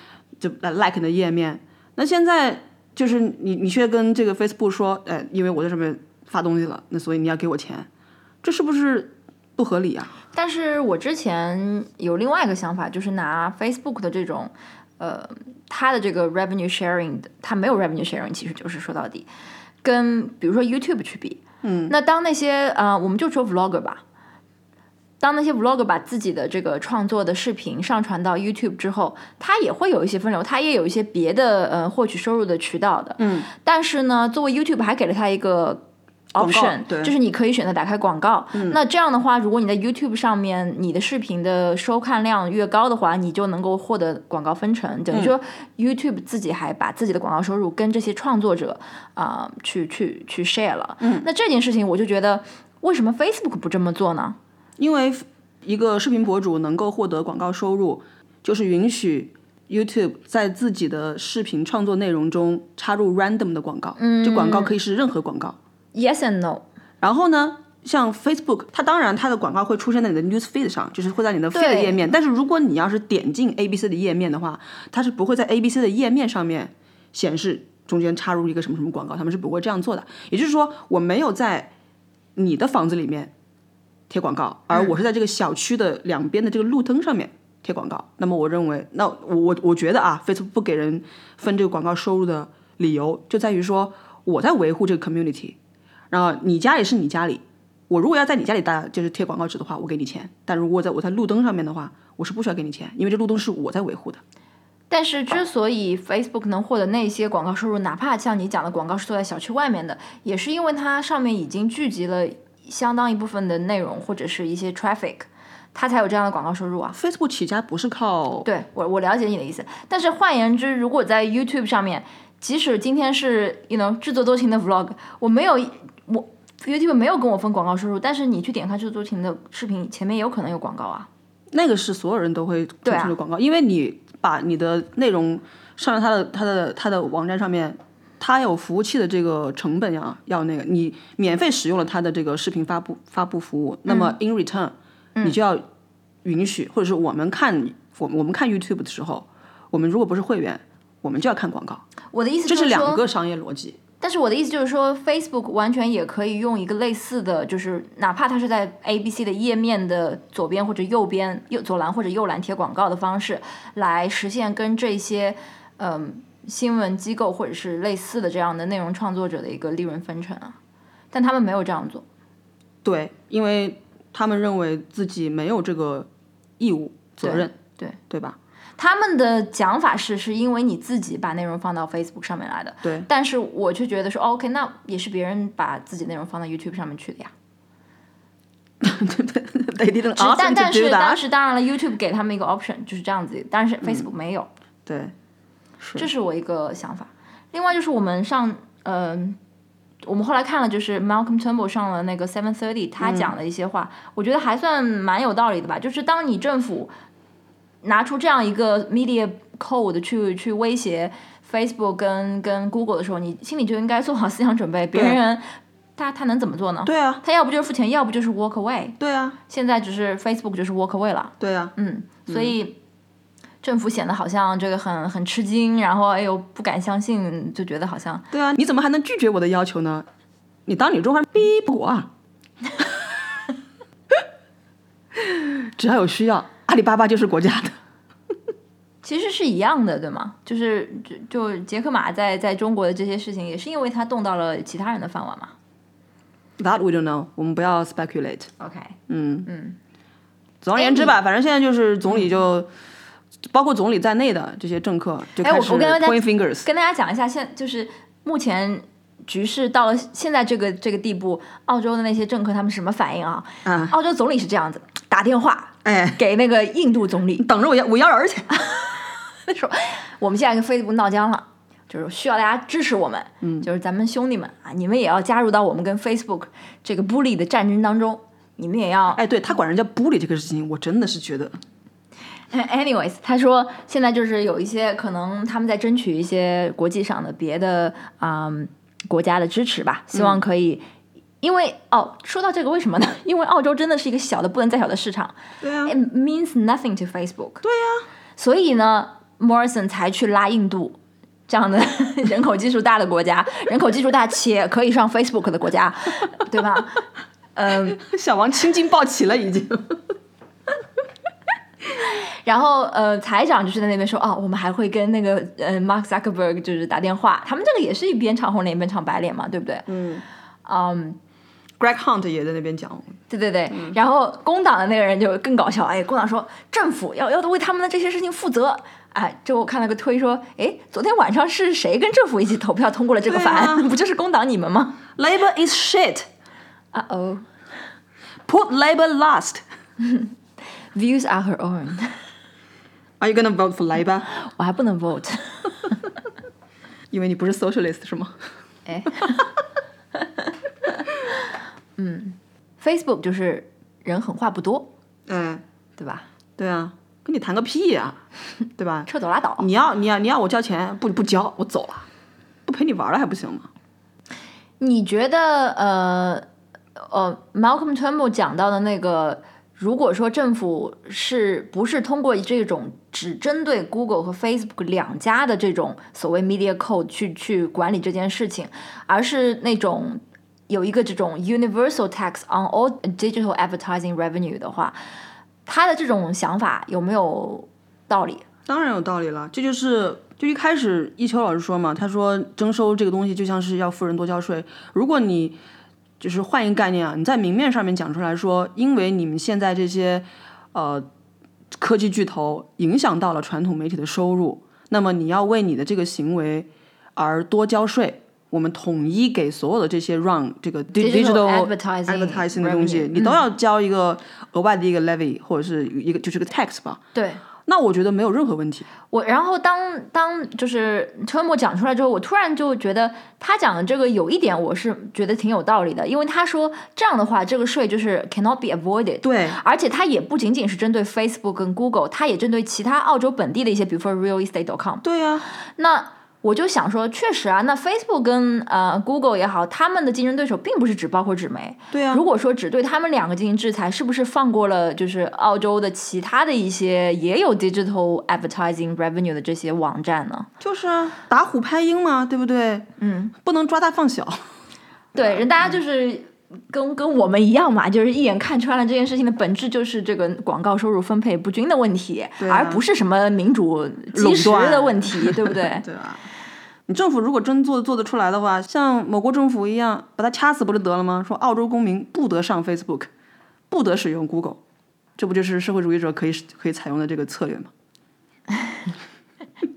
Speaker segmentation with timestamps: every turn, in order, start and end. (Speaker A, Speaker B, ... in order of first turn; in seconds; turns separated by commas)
Speaker A: 0.4-7.9, Speaker A: 8.4-10.1, Speaker B: 10.3-19.3, Speaker B: 19.8-24.0, Speaker A: 21.6-21.9, Speaker B: 25.2-35.8, Speaker A: 33.2-33.5, Speaker A: 36.4-37.1, Speaker B: 36.4-54.4, Speaker A: 38.5-38.8, Speaker A: 51.0-51.3, Speaker A: 54.8-65.6, Speaker B: 64.0-64.8, Speaker B: 65.9-66.7, Speaker A: 67.0-81.7, Speaker B: 71.5-72.0, Speaker A: 82.4-83.3, Speaker A: 84.1-95.6, Speaker A: 96.1-104.2, Speaker B: 104.9-117.0, Speaker A: 116.9-118.5, Speaker B: 118.5-131.1, Speaker A: 131.5-145.6, Speaker B: 132.8-133.2, Speaker B: 143.9-144.1, Speaker A: 146.2-151.8, Speaker B: 152.1-153.0, Speaker A: 152.5-153.8, Speaker B: 154.0-170.6, Speaker B: 171.1-172.1, Speaker A: 172.8-177.5, Speaker B: 177.2-178.0, Speaker A: 178.1-178.4, Speaker B: 178.8-187.3, Speaker A: 188.8-191.2, Speaker B: 190.2-194.5, Speaker A: 194.9-195.1, Speaker A: 195.8-196.1, Speaker B: 196.0-199.4, Speaker B: 200.0-206.9, Speaker A: 203.0-203.3, Speaker B: 207.8-219.0, Speaker A: 214.9-215.2, Speaker A: 216.9-217.2, Speaker A: 219.0-219.4, Speaker B: 219.5-222.8, Speaker A: 221.4-221.8, Speaker A: 222.3-222.5, Speaker B: 223.6-228.3, Speaker A: 228.3-230.1, Speaker A: 230.7-232.1, Speaker A: 235.2-237.8, Speaker B: 239.0-245.5, Speaker A: 246.6-248.5, Speaker B: 248.6-249.8, Speaker A: 249.1-249.5, Speaker A: 250.6-252.7, Speaker B: 250.8-251.2, Speaker A: 253.5-256.7, Speaker B: 255.4-267.4, Speaker A: 263.6-263.9, Speaker A: 265.9-266.2, Speaker A: 267.4-268.6, Speaker B: 269.4-279.2, Speaker A: 273.4-273.7, Speaker A: 279.1-281.6, Speaker B: 282.5-290.8, Speaker A: 290.1-290.4, Speaker B: 291.4-297.6, Speaker A: 295.6-295.9, Speaker A: 297.6-298.1, Speaker B: 298.4-307.0, Speaker B: 307.6-308.0, Speaker A: 307.9-310.0, Speaker B: 312.0-319.9, Speaker A: 319.9-320.2, Speaker B: 320.6-321.2, Speaker A: 321.8-323.2, Speaker B: 323.3-335.0, Speaker A: 323.7-324.0, Speaker A: 333.3-333.9, Speaker A: 335.2-336.3, Speaker B: 336.9-337.5, Speaker A: 338.5-339.6, Speaker B: 340.0-340.3, Speaker B: 340.9-342.2, Speaker A: 343.2-344.3, Speaker B: 344.3-346.0, Speaker A: 347.1-348.4, Speaker B: 348.9-349.5, Speaker A: 349.1-349.4, Speaker B: 350.1-350.5, Speaker B: 352.0-354.9, Speaker A: 355.3-355.6, Speaker B: 356.0-356.3, Speaker A: 356.6-358.2, Speaker A: 358.8-359.1, Speaker B: 359.1-359.7, Speaker A: 359.6-362.1, Speaker A: 362.7-363.7, Speaker B: 364.8-385.0, Speaker B: 385.7-388.4, Speaker A: 388.7-395.6, Speaker A: 396.2-401.1, Speaker A: 401.7-417.0, Speaker B: 411.0-413.4, Speaker B: 417.1-417.4, Speaker A: 417.7-418.9, Speaker B: 419.1-450.5, Speaker A: 429.2-429.6, Speaker A: 435.0-435.5, Speaker A: 441.9-442.2, Speaker A: 450.6-452.9, Speaker B: 453.0-453.3, Speaker A: 453.4-454.4, Speaker B: 455.1-465.9, Speaker A: 462.4-462.8, Speaker A: 464.1-466.2, Speaker A: 466.9-473.1, Speaker A: 473.7-474.6, Speaker A: 475.2-477.7